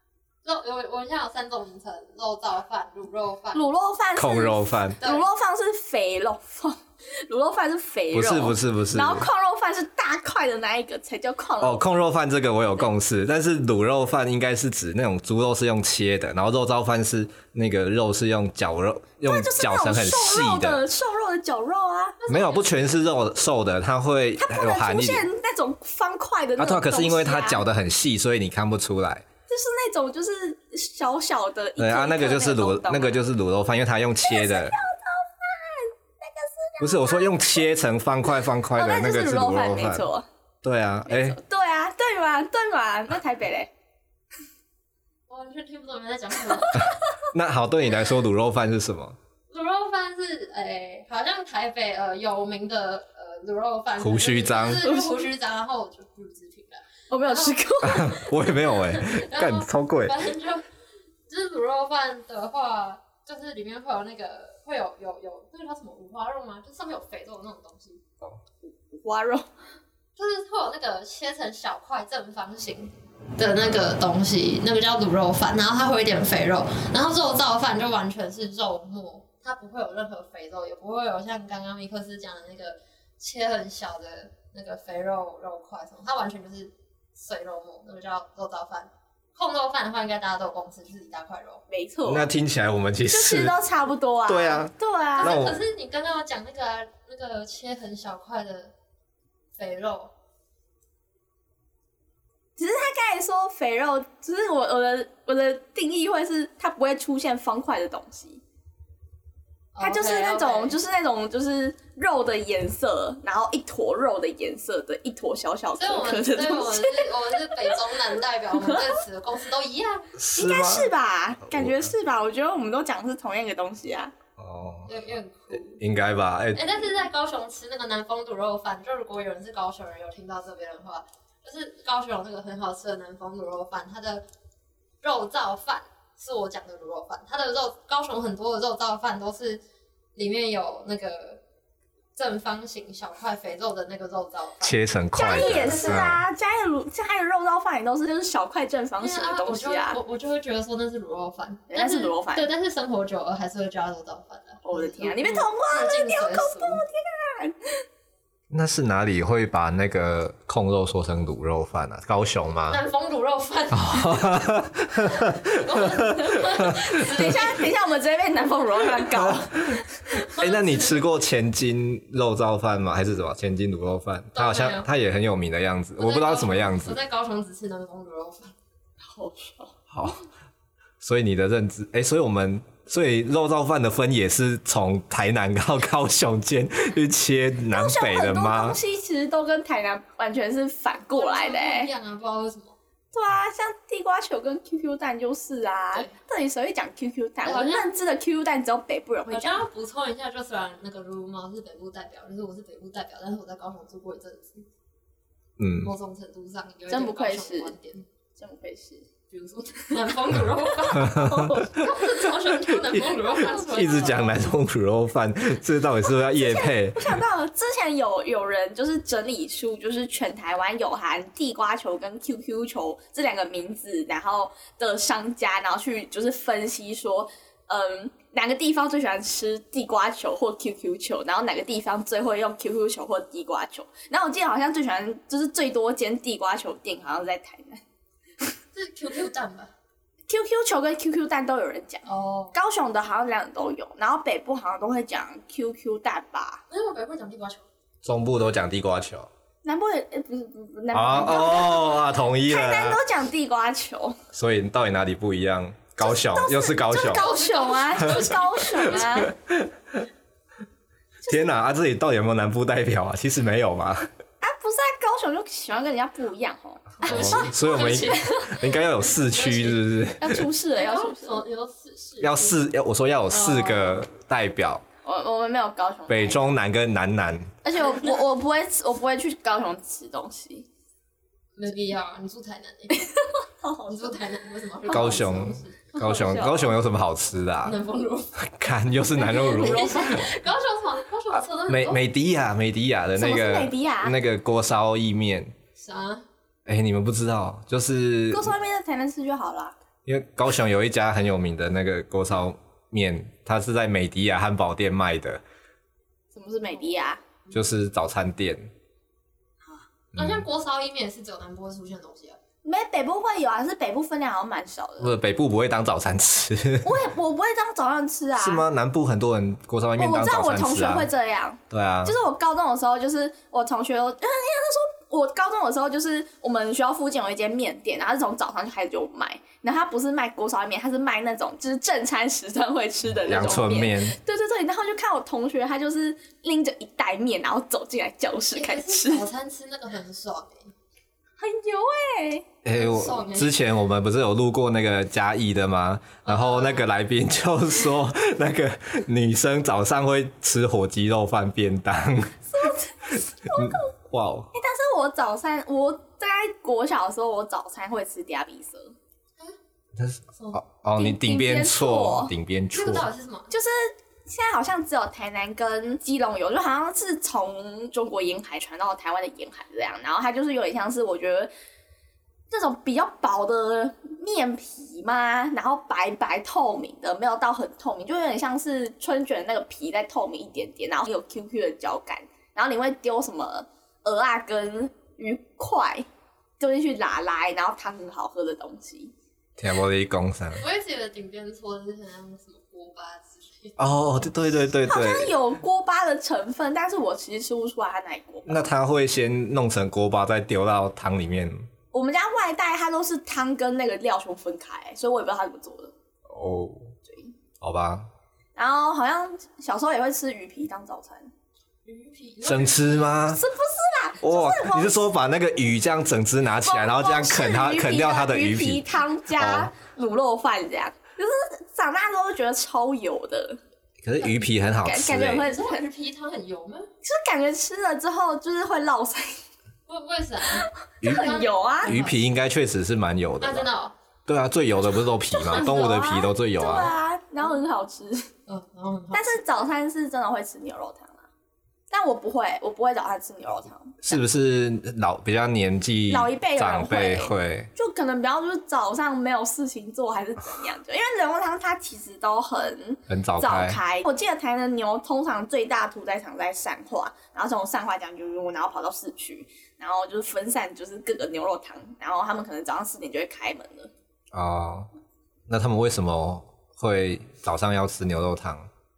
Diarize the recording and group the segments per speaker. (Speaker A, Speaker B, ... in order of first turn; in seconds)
Speaker A: 0.4-3.7, 5.0-5.3, 22.2-22.8, 45.3-46.9, 49.5-60.6, 61.3-68.0, 70.2-91.6, 95.2-98.7, 99.5-100.1, 109.7-110.8, 115.8-120.1, 124.9-125.8, 126.5-134.2, 135.0-139.6, 140.1-141.4, 142.2-146.0, 149.0-156.8, 162.7-164.4, 165.0-167.7, 170.1-171.0, 174.3-174.9, 176.0-178.5, 191.1-192.8, 197.4-197.9, 199.3-204.7, 205.8-208.0, 209.3-214.4, 238.7-239.7, 242.1-242.5, 246.7-247.7, 257.0-259.1, 267.0-269.9, 270.8-272.6, 273.3-274.0, 281.6-283.1, 283.9-285.9, 287.6-288.4, 289.2-292.0, 295.8-296.2, 310.1-312.4, 338.5-340.7, 342.7-343.5, 346.2-346.9, 362.7-363.5, 390.6-393.9, 411.8-413.1, 425.4-426.9, 429.9-432.2, 433.4-433.9, 435.5-435.9, 438.5-439.5
Speaker B: 3.5-11.8, 19.2-22.2, 24.4-27.6, 29.5-33.2, 34.2-37.6, 38.8-40.2, 41.1-43.7, 54.8-55.1, 57.1-58.2, 68.6-69.5, 91.7-92.3, 93.1-95.4, 102.6-108.4, 109.8-117.7, 118.6-118.9, 120.3-124.1, 145.2-150.0, 151.7-152.5, 154.6-157.8, 166.8-169.6, 179.0-179.8, 187.7-191.9, 193.1-199.6, 206.9-207.7, 208.3-209.1, 210.7-211.8, 216.3-237.8, 240.3-246.6, 249.6-254.2, 256.0-259.3, 264.4-268.5, 270.2-271.4, 275.0-276.5, 277.6-280.7, 282.9-284.2, 284.9-285.2, 285.9-286.7, 289.2-290.1, 293.2-294.2, 298.3-299.7, 306.3-307.2, 312.6-315.1, 316.8-318.6, 320.0-339.2, 341.4-342.4, 352.5-353.9, 354.5-358.9, 361.0-362.3, 363.5-371.5, 372.5-386.1, 386.6-389.1, 394.9-398.7, 401.9-405.9, 407.1-407.3, 408.6-411.3, 413.3-415.1, 416.6-423.6, 424.8-425.9, 427.0-429.4, 430.5-431.9, 435.3-438.3, 439.1-441.3, 441.9-444.2, 446.1-463.9
Speaker C: 4.2-5.0, 8.1-9.3, 11.6-20.8, 22.3-25.2, 26.6-29.2, 31.8-34.8, 36.8-40.0, 40.6-41.4, 47.3-49.2, 54.0-54.8, 57.8-60.2, 92.1-93.6, 94.3-95.6, 120.2-120.9, 121.5-121.9, 124.4-125.0, 125.5-126.8, 144.6-146.2, 158.5-162.8, 163.7-167.4, 169.1-177.0, 179.9-180.2, 181.0-188.8, 205.6-205.9, 211.0-211.8, 213.4-217.2, 248.0-249.3, 250.9-253.0, 254.3-257.3, 259.0-260.0, 261.2-264.1, 267.0-270.5, 272.2-274.8, 276.1-277.5, 284.9-287.8, 288.4-290.3, 291.7-295.5, 296.6-298.5, 300.0-305.4, 307.5-308.7, 310.1-310.4, 315.0-317.0, 318.4-321.1, 321.7-322.1, 333.1-334.1, 342.6-352.7, 353.5-354.5, 359.9-363.1, 389.6-390.6, 393.8-395.3, 398.4-401.7, 406.3-406.9, 407.6-408.1, 412.4-413.4, 414.2-419.7, 424.0-425.5, 431.0-431.3, 431.8-433.7, 434.3-436.9, 444.0-447.7, 453.1-453.8, 464.3-464.9, 465.5-468.7